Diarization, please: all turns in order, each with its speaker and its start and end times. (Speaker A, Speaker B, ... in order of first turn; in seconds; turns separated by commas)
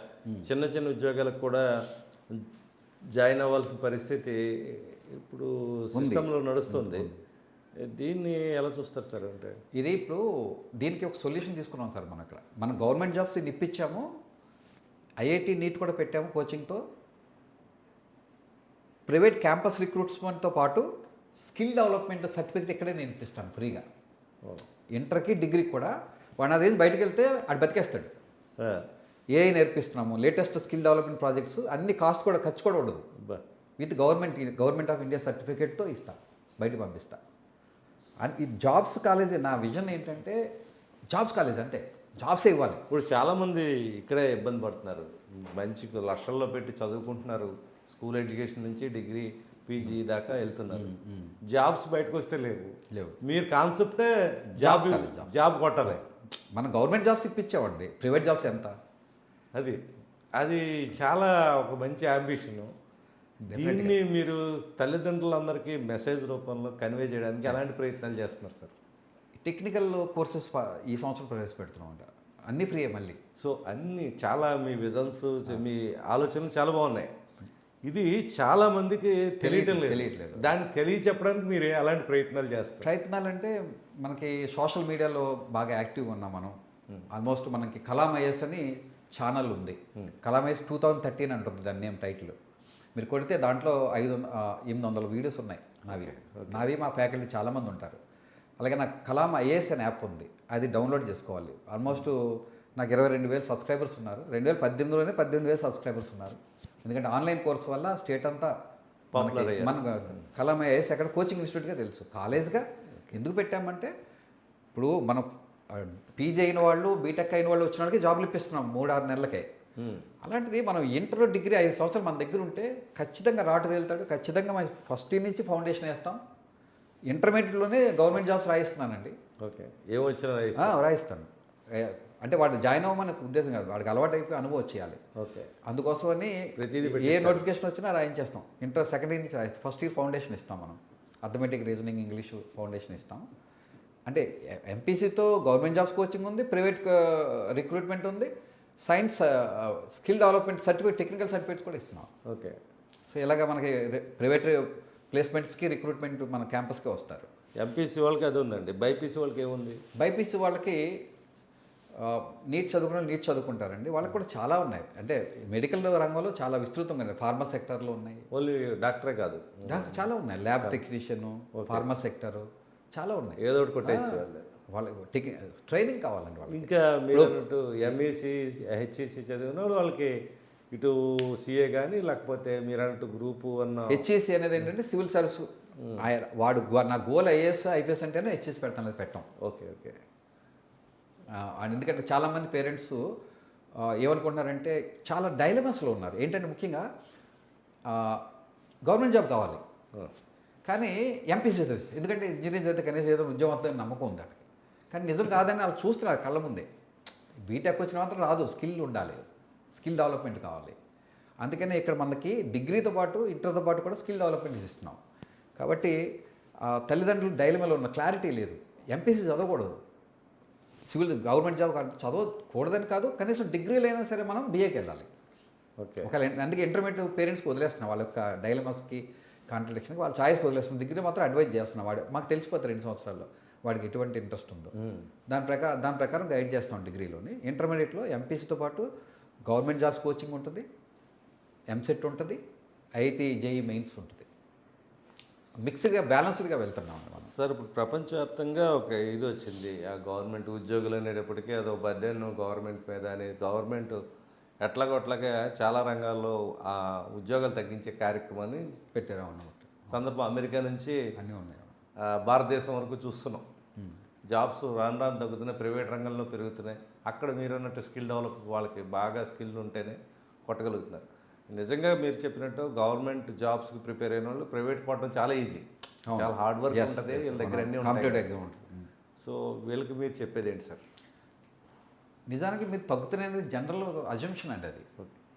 Speaker A: 0.5-1.6, Speaker A: 3.2-7.1, Speaker B: 6.0-7.2, Speaker A: 7.8-9.6, Speaker B: 9.7-10.2, Speaker B: 10.8-14.1, Speaker B: 15.2-16.8, Speaker B: 19.1-20.9, Speaker B: 21.4-23.9, Speaker B: 24.9-28.1, Speaker A: 28.6-28.8, Speaker B: 29.3-33.0, Speaker B: 33.8-37.2, Speaker B: 38.2-40.4, Speaker B: 41.1-42.8, Speaker A: 42.9-50.9, Speaker B: 50.7-51.4, Speaker A: 51.5-56.0, Speaker B: 52.9-53.2, Speaker B: 54.6-55.3, Speaker B: 56.5-58.7, Speaker A: 59.5-59.8, Speaker A: 60.4-62.7, Speaker B: 63.5-64.0, Speaker A: 63.5-68.7, Speaker B: 69.4-73.2, Speaker A: 73.4-77.1, Speaker A: 77.8-82.9, Speaker B: 79.4-80.5, Speaker B: 82.8-86.6, Speaker B: 87.1-92.3, Speaker B: 92.9-98.0, Speaker A: 95.9-96.7, Speaker B: 98.6-108.5, Speaker A: 109.1-110.2, Speaker B: 109.1-113.9, Speaker B: 114.8-119.5, Speaker A: 119.8-120.1, Speaker B: 120.2-126.2, Speaker B: 127.1-129.2, Speaker A: 129.4-130.8, Speaker B: 130.6-135.0, Speaker A: 135.2-135.5, Speaker B: 135.7-143.2, Speaker A: 136.6-137.4, Speaker B: 144.1-148.3, Speaker B: 148.8-152.1, Speaker A: 152.3-152.6, Speaker B: 153.1-157.3, Speaker A: 157.6-159.8, Speaker B: 160.0-160.8, Speaker B: 162.0-168.2, Speaker A: 168.3-170.0, Speaker B: 169.7-178.0, Speaker A: 171.5-171.8, Speaker A: 173.4-174.5, Speaker A: 176.5-180.1, Speaker A: 180.7-184.0, Speaker B: 183.9-189.3, Speaker A: 189.4-190.0, Speaker B: 191.3-193.0, Speaker B: 193.8-196.9, Speaker B: 197.9-198.2, Speaker B: 198.8-199.6, Speaker B: 200.7-206.7, Speaker B: 207.5-210.8, Speaker B: 211.4-215.0, Speaker B: 215.6-216.0, Speaker B: 216.6-219.8, Speaker B: 220.9-225.1, Speaker A: 225.8-226.1, Speaker B: 226.0-234.7, Speaker A: 234.8-235.1, Speaker B: 235.3-238.9, Speaker B: 239.5-240.7, Speaker B: 241.7-242.4, Speaker B: 243.0-244.3, Speaker B: 245.6-247.3, Speaker A: 247.2-254.0, Speaker A: 254.6-258.6, Speaker B: 258.9-260.0, Speaker A: 259.9-261.0, Speaker B: 261.2-261.8, Speaker A: 262.1-263.4, Speaker A: 264.3-278.2, Speaker B: 276.1-278.9, Speaker A: 279.2-280.8, Speaker B: 282.3-284.9